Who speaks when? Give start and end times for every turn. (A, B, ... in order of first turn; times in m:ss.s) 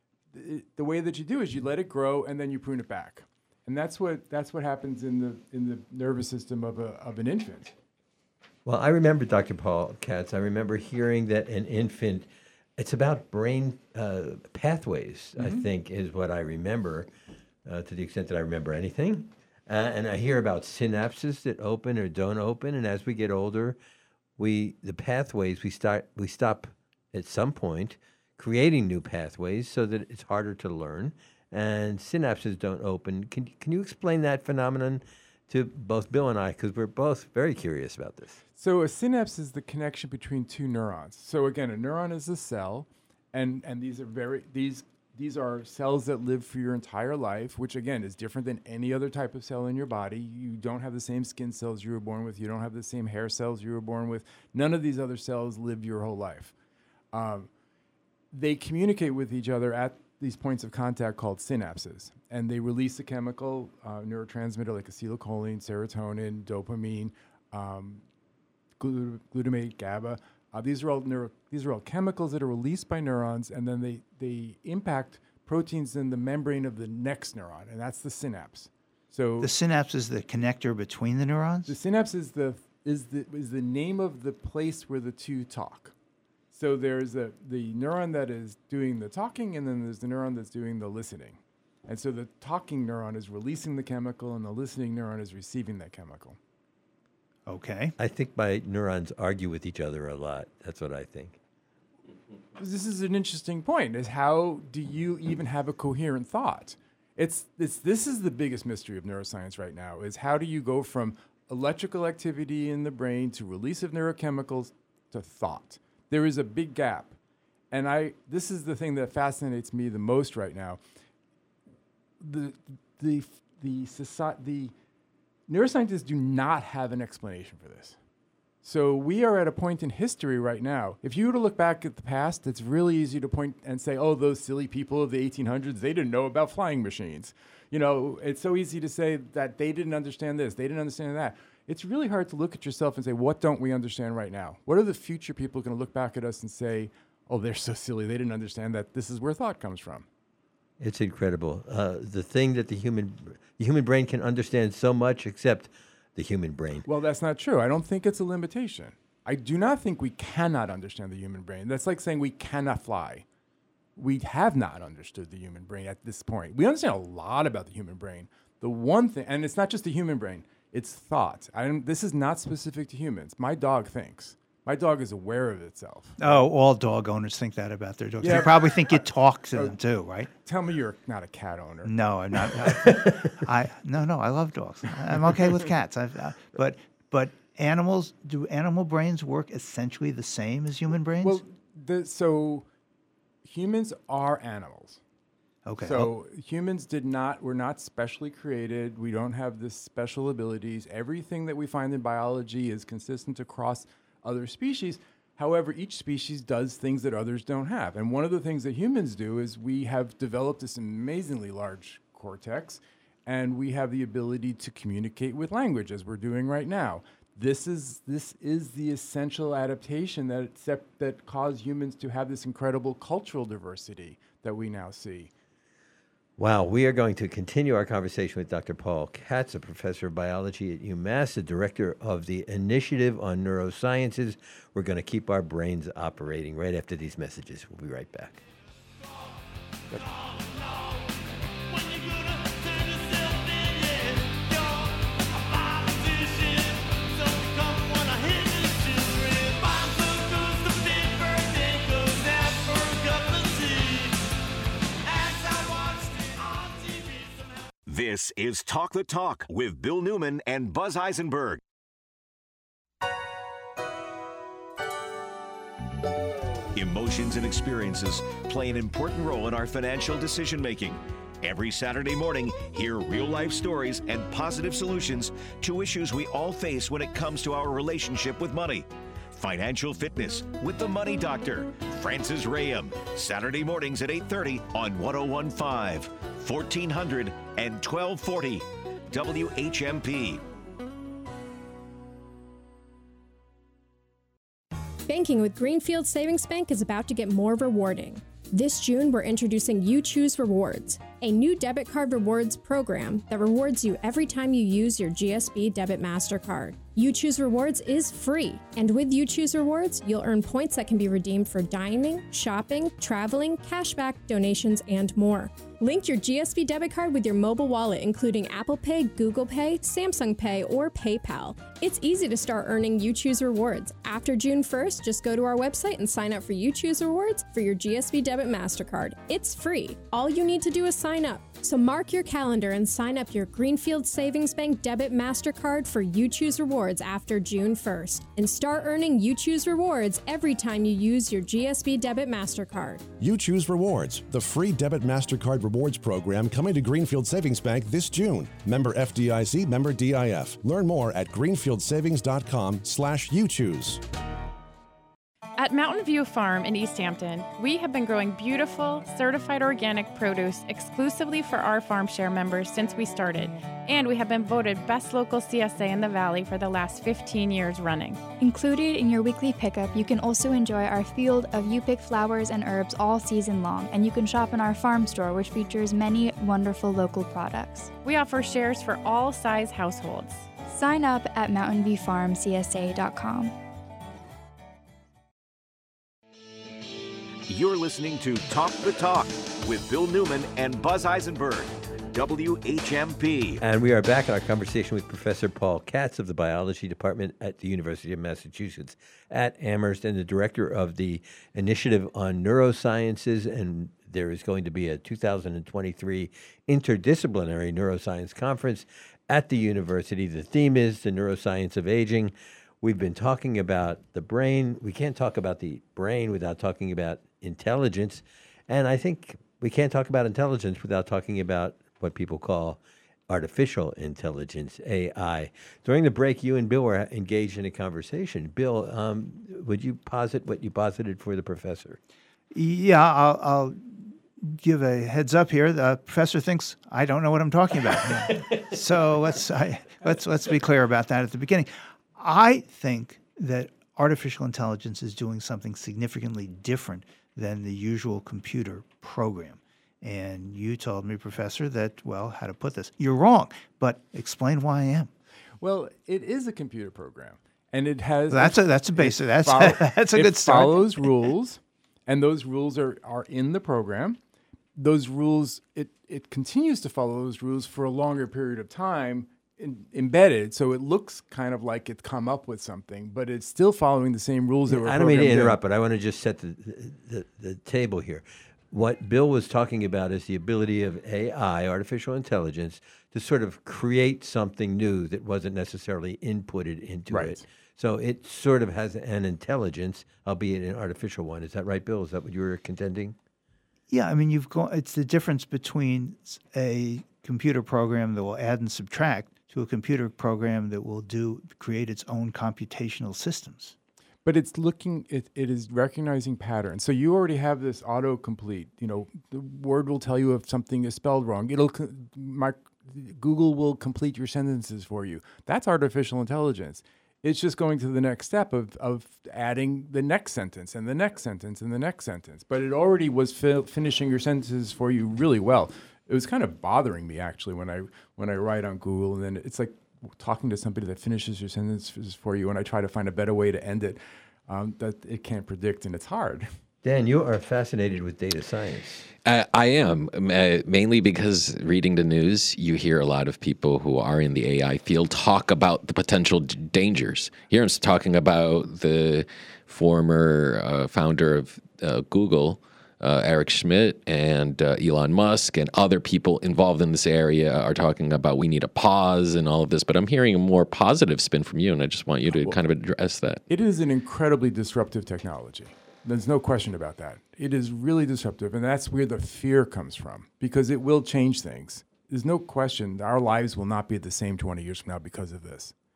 0:00.3-0:07.7 A
0:08.6-0:17.1 B
0:15.4-0:15.6 A
0:17.6-0:23.8 B
0:24.4-0:38.4 B
0:38.5-0:56.5 A
0:57.1-0:57.5 A
0:58.3-1:08.0 A
1:08.8-1:19.5 A
1:19.4-1:21.7 C
1:21.7-1:25.9 A
1:26.5-1:36.4 A
1:37.5-1:37.9 C
1:38.0-1:41.4 B
1:42.6-1:57.1 A
1:57.7-2:00.8 A
2:02.2-2:04.7 A
2:05.5-2:08.0 A
2:08.6-2:30.0 A
2:30.8-2:36.9 B
2:36.8-2:43.2 A
2:44.0-2:56.2 A
2:56.2-3:00.3 C
2:58.2-2:59.8 A
3:00.4-3:01.9 A
3:01.8-3:11.4 C
3:02.6-3:03.3 B
3:11.2-3:12.6 A
3:13.4-3:15.0 A
3:15.7-3:16.1 C
3:15.8-3:45.3 A
3:46.4-3:58.4 B
4:17.9-4:21.6 D
4:26.7-4:50.4 D
4:55.1-5:43.0 E
5:43.2-5:54.0 F
5:55.6-6:08.4 G
6:08.4-6:12.7 H
6:13.3-6:14.9 H
6:16.0-6:17.3 H
6:17.7-6:20.9 G
6:21.5-6:22.3 H
6:27.5-6:33.6 D
6:33.6-7:12.0 B
7:12.5-7:35.1 C
7:35.6-7:44.2 A
7:38.3-7:41.0 C
7:44.8-7:55.6 A
7:54.7-8:13.2 B
8:07.1-8:07.4 A
8:13.9-8:23.7 C
8:24.2-8:56.5 A
8:56.8-8:59.1 B
8:59.2-9:23.4 I
9:23.5-9:35.7 A